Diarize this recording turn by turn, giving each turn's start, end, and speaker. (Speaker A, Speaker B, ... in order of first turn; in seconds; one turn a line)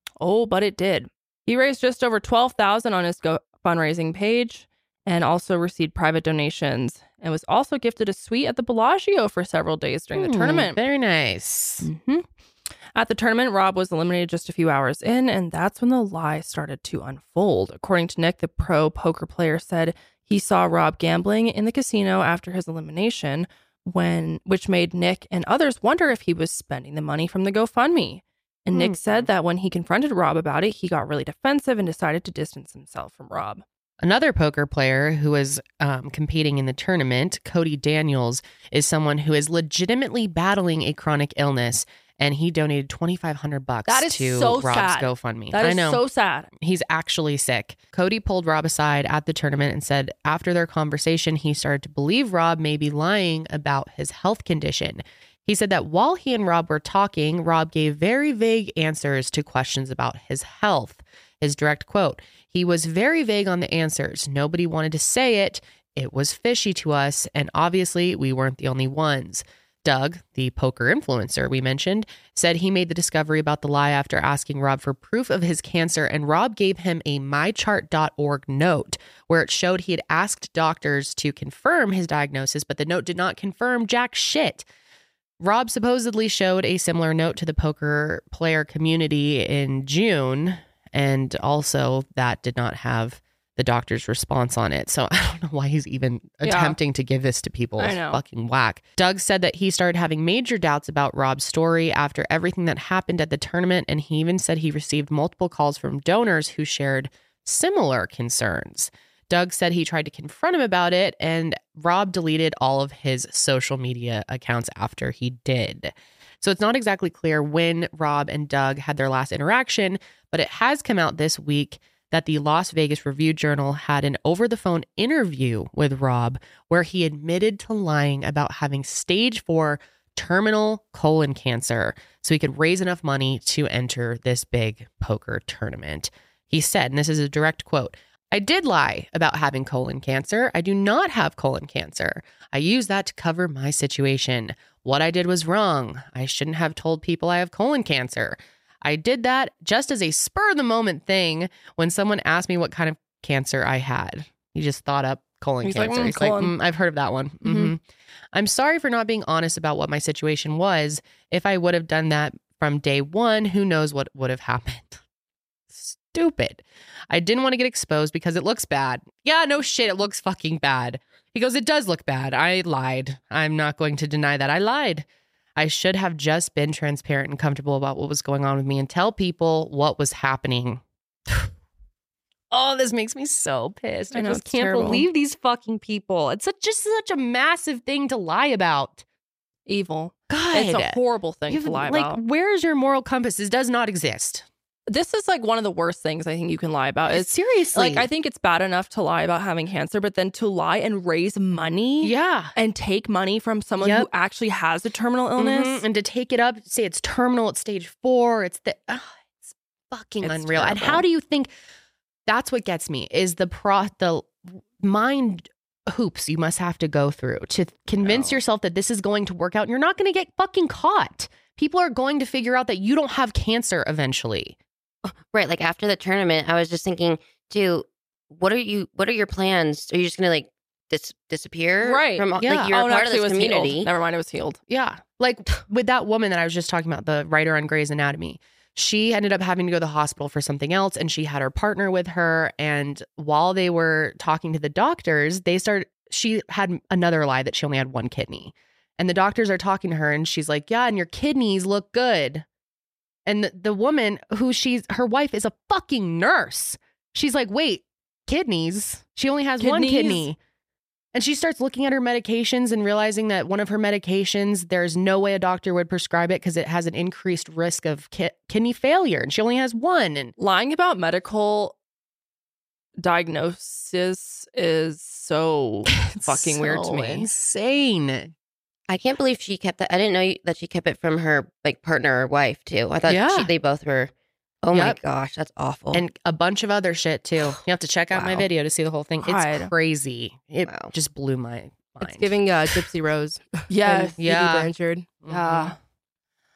Speaker A: 0.2-10.8
Speaker B: 10.2-11.9
Speaker A: 11.8-12.2
Speaker A: 12.9-33.6
Speaker B: 28.7-29.3
Speaker B: 34.0-46.0
Speaker A: 43.9-46.5
Speaker B: 46.6-84.6
Speaker B: 85.4-157.8
Speaker A: 96.4-96.8
Speaker A: 97.8-98.2
Speaker A: 155.6-156.6
Speaker A: 157.4-157.7
Speaker B: 158.3-165.0
Speaker B: 165.7-175.0
Speaker B: 175.6-181.5
Speaker B: 182.5-189.0
Speaker A: 184.1-185.1
Speaker A: 189.7-192.2
Speaker B: 190.3-194.4
Speaker A: 194.9-205.8
Speaker B: 197.1-198.1
Speaker B: 202.0-202.5
Speaker B: 203.8-204.1
Speaker B: 205.4-211.5
Speaker A: 210.2-211.0
Speaker B: 212.3-224.6
Speaker A: 218.0-218.4
Speaker C: 225.1-233.9
Speaker A: 231.8-234.6
Speaker B: 232.4-232.7
Speaker B: 234.7-252.4
Speaker B: 253.2-260.4
Speaker A: 259.6-260.3
Speaker B: 261.1-270.3
Speaker A: 270.4-271.8
Speaker A: 273.0-277.3
Speaker B: 276.1-278.3
Speaker C: 278.9-284.1
Speaker B: 283.1-283.5
Speaker C: 284.6-286.0
Speaker B: 284.7-285.0
Speaker B: 285.9-292.8
Speaker A: 288.1-288.4
Speaker A: 289.2-289.7
Speaker C: 290.6-290.9
Speaker D: 292.0-295.2
Speaker A: 293.7-294.2
Speaker B: 294.2-295.8
Speaker A: 295.3-295.8